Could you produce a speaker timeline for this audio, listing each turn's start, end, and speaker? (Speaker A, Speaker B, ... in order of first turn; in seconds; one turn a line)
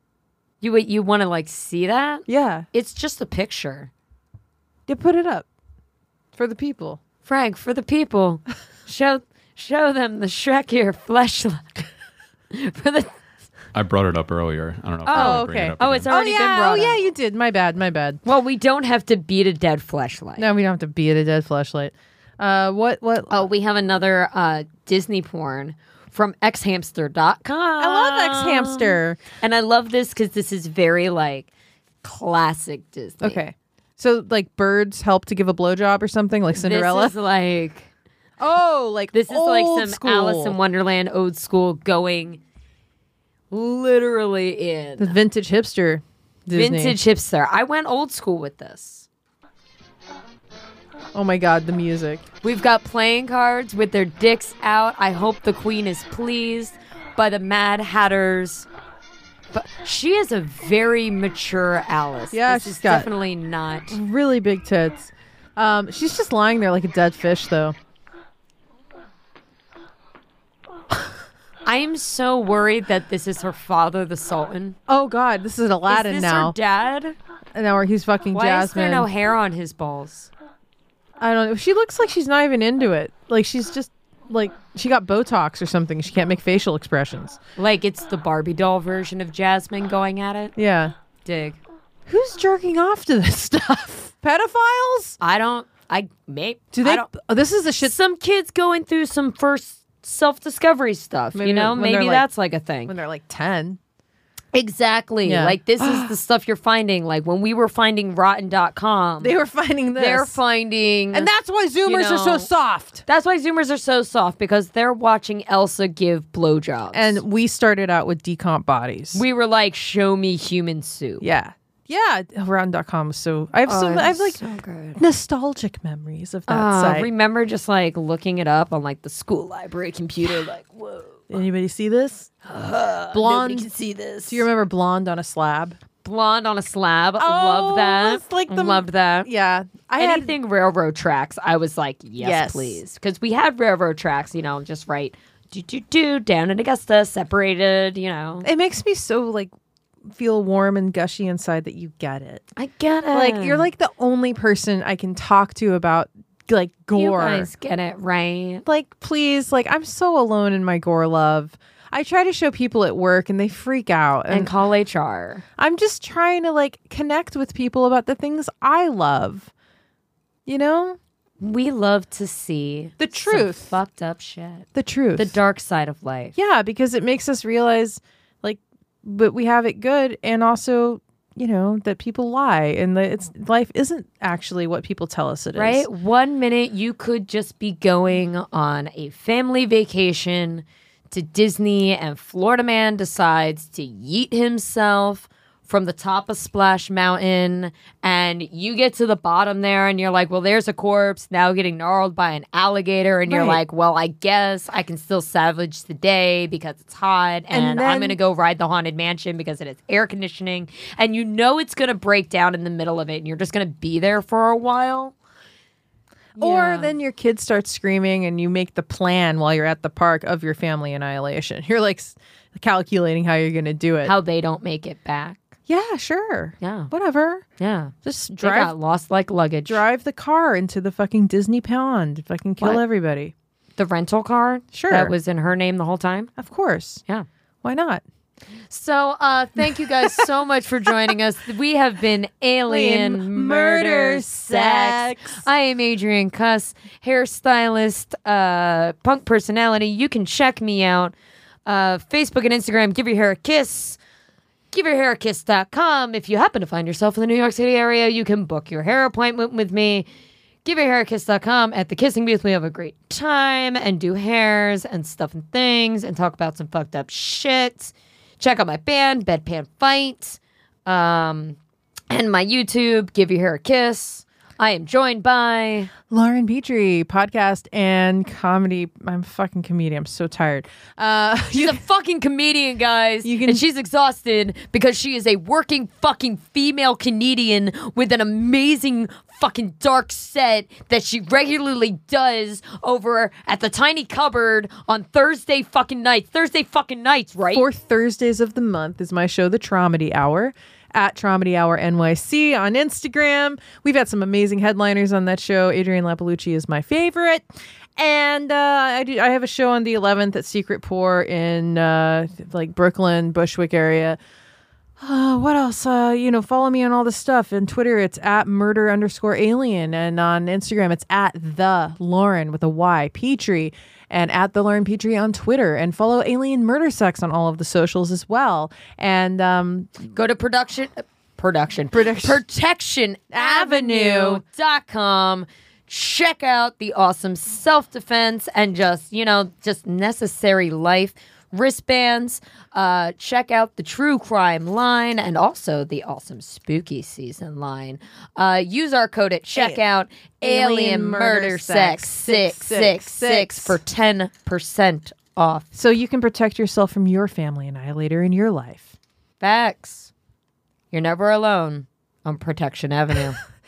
Speaker A: 0.6-3.9
Speaker B: 2.3-2.7
Speaker B: 4.9-5.5
Speaker B: 6.3-7.0
Speaker A: 7.2-11.9
Speaker A: 12.5-13.2
Speaker C: 13.7-16.1
Speaker A: 15.0-17.0
Speaker B: 15.1-18.2
Speaker A: 18.2-20.5
Speaker B: 20.4-23.4
Speaker A: 23.3-31.5
Speaker B: 27.8-29.2
Speaker A: 32.0-33.4
Speaker B: 33.2-37.1
Speaker A: 36.5-37.9
Speaker B: 38.4-40.6
Speaker A: 39.1-42.4
Speaker A: 43.5-45.2
Speaker B: 45.0-47.0
Speaker A: 46.5-49.1
Speaker B: 51.1-52.2
Speaker A: 52.4-58.7
Speaker A: 59.5-64.0
Speaker B: 62.3-63.1
Speaker B: 63.9-67.8
Speaker A: 71.6-74.8
Speaker B: 74.9-76.6
Speaker A: 75.9-77.1
Speaker B: 77.5-79.1
Speaker A: 78.3-80.3
Speaker B: 81.2-87.4
Speaker A: 87.6-90.5
Speaker B: 90.5-90.9
Speaker A: 91.2-91.6
Speaker B: 92.1-95.2
Speaker A: 95.2-97.1
Speaker B: 96.7-97.9
Speaker A: 97.8-102.9
Speaker B: 101.3-102.2
Speaker B: 102.9-103.8
Speaker A: 104.5-109.3
Speaker B: 105.2-106.1
Speaker B: 109.2-110.4
Speaker A: 109.9-111.3
Speaker B: 111.1-113.0
Speaker A: 111.8-112.5
Speaker A: 113.0-117.2
Speaker B: 116.9-119.2
Speaker A: 119.1-121.2
Speaker B: 121.2-124.4
Speaker A: 123.7-125.0
Speaker B: 125.0-127.1
Speaker A: 126.5-131.3
Speaker B: 131.3-132.3
Speaker A: 132.4-134.5
Speaker B: 133.1-133.7
Speaker B: 134.3-135.8
Speaker A: 136.0-139.3
Speaker B: 137.2-140.3
Speaker A: 140.0-148.5
Speaker B: 142.2-142.8
Speaker B: 148.4-149.5
Speaker B: 150.1-152.5
Speaker A: 152.6-153.7
Speaker B: 153.1-157.5
Speaker A: 156.9-158.7
Speaker B: 158.7-164.5
Speaker A: 164.3-165.4
Speaker B: 165.6-169.5
Speaker B: 170.4-171.0
Speaker A: 171.4-176.3
Speaker B: 173.0-173.7
Speaker B: 174.7-175.3
Speaker B: 176.3-185.8
Speaker A: 185.5-215.1
Speaker B: 203.3-203.6
Speaker B: 207.5-208.2
Speaker A: 216.3-216.9
Speaker B: 216.4-224.1
Speaker A: 224.0-225.5
Speaker B: 225.7-227.4
Speaker A: 226.6-226.9
Speaker A: 227.6-229.8
Speaker B: 228.0-228.7
Speaker B: 229.7-233.3
Speaker A: 233.8-236.3
Speaker B: 234.7-235.1
Speaker B: 236.4-237.0
Speaker B: 237.6-238.0
Speaker A: 238.7-251.1
Speaker B: 239.6-240.2
Speaker B: 242.7-245.4
Speaker A: 251.7-254.0
Speaker A: 254.7-260.1
Speaker A: 260.6-271.6
Speaker A: 272.1-275.9
Speaker B: 276.1-281.8
Speaker A: 281.5-297.7
Speaker B: 283.2-283.6
Speaker B: 297.5-307.4
Speaker B: 308.0-314.2
Speaker B: 315.0-329.9
Speaker A: 330.0-355.7
Speaker B: 331.9-332.4
Speaker B: 333.3-334.4
Speaker B: 349.5-349.8
Speaker B: 350.4-353.8
Speaker B: 355.7-358.9
Speaker A: 359.4-360.1
Speaker A: 360.9-363.4